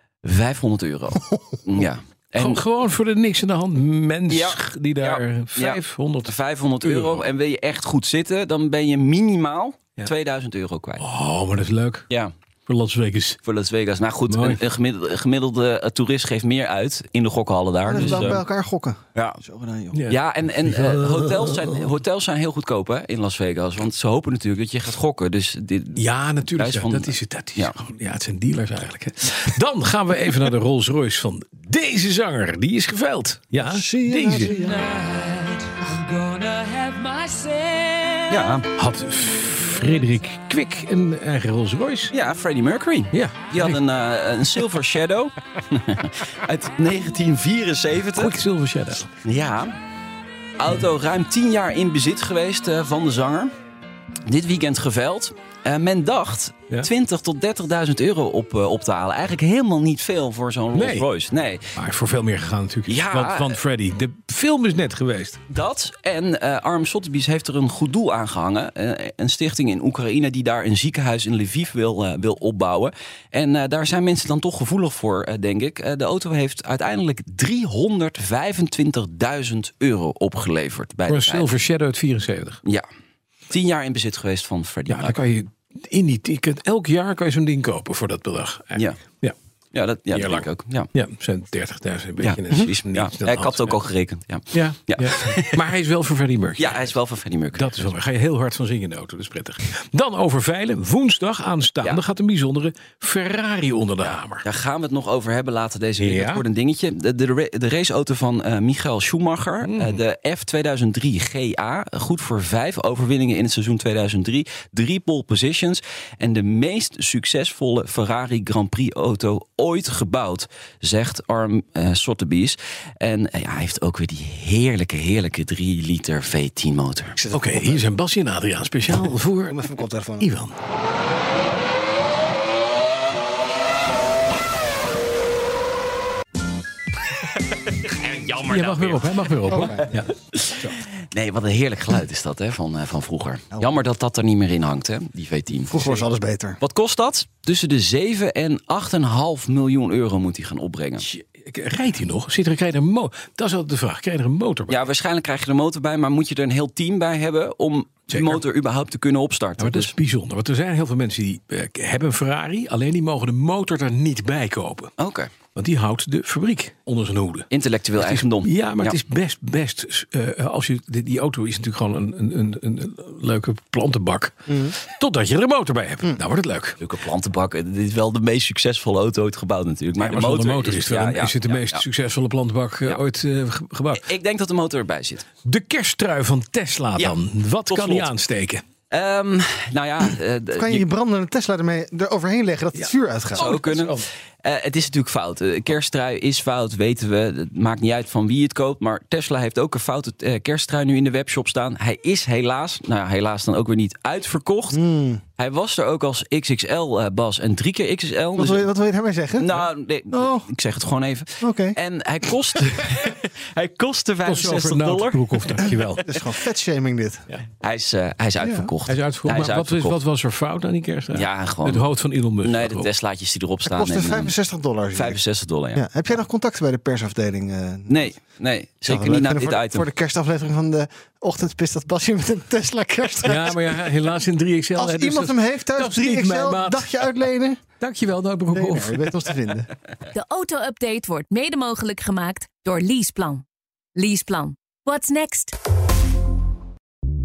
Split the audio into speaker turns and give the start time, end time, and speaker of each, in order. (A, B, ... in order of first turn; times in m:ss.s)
0:00.2-0:02.6 A
0:02.3-0:07.2 B
0:04.3-0:11.0 A
0:11.0-0:12.1 B
0:12.7-0:13.4 B
0:13.4-0:18.4 A
0:14.3-0:14.6 B
0:17.8-0:20.0 C
0:18.0-0:18.4 B
0:19.1-0:19.4 A
0:19.9-0:21.4 B
0:20.1-0:27.8 A
0:25.9-0:34.8 B
0:33.6-0:35.0 C
0:35.1-0:38.2 D
0:38.3-0:38.7 A
0:38.8-0:42.1 B
0:42.1-0:48.4 A
0:43.1-0:43.8 B
0:48.2-0:49.1 B
0:49.2-0:49.7 A
0:50.6-0:53.5 A
0:54.2-1:01.7 A
1:00.7-1:01.1 B
1:01.7-1:05.4 B
1:02.9-1:03.6 A
1:05.5-1:21.5 A
1:21.1-1:22.6 B
1:23.5-1:25.2 A
1:24.9-1:29.3 B
1:28.7-1:29.0 A
1:29.7-1:30.9 A
1:30.1-1:33.8 B
1:32.2-1:35.6 A
1:34.5-1:36.8 B
1:36.6-1:37.9 A
1:37.5-1:44.4 B
1:44.4-2:07.2 A
1:46.0-1:46.4 B
1:49.6-1:50.0 B
2:07.2-2:07.8 C
2:07.3-2:09.6 B
2:09.4-2:10.3 C
2:10.2-2:10.6 B
2:18.0-2:18.4 A
2:18.3-2:20.1 B
2:19.5-2:19.9 C
2:20.3-2:26.1 A
2:25.6-2:26.6 C
2:26.6-2:31.1 A
2:31.0-2:34.8 B
2:34.7-2:39.9 A
2:38.1-2:38.4 B
2:39.6-2:44.9 B
2:45.0-2:45.3 A
2:45.5-2:56.8 B
2:47.5-2:49.0 A
2:54.5-2:54.8 C
2:56.8-3:01.8 A
3:00.0-3:04.0 B
3:03.9-3:05.3 A
3:05.4-3:08.6 B
3:07.7-3:08.1 A
3:08.9-3:10.8 A
3:10.5-3:13.5 C
3:12.7-3:14.0 B
3:13.3-3:24.8 A
3:24.7-3:25.2 C
3:25.4-3:28.7 A
3:28.4-3:29.6 C
3:29.4-3:36.0 A
3:30.1-3:30.5 C
3:31.4-3:31.8 C
3:34.2-3:36.0 B
3:36.0-3:37.2 C
3:37.6-3:40.0 A
3:38.4-3:38.7 C
3:38.8-3:42.9 B
3:41.1-3:41.8 A
3:42.4-3:44.3 A
3:43.6-3:45.2 C
3:44.9-3:45.8 A
3:45.7-3:48.0 C
3:47.9-3:49.9 A
3:48.8-3:53.8 C
3:53.2-3:57.1 B
3:54.7-3:57.6 C
3:57.8-3:59.2 B
3:58.5-3:59.7 C
4:00.1-4:03.4 D
4:04.0-4:05.5 D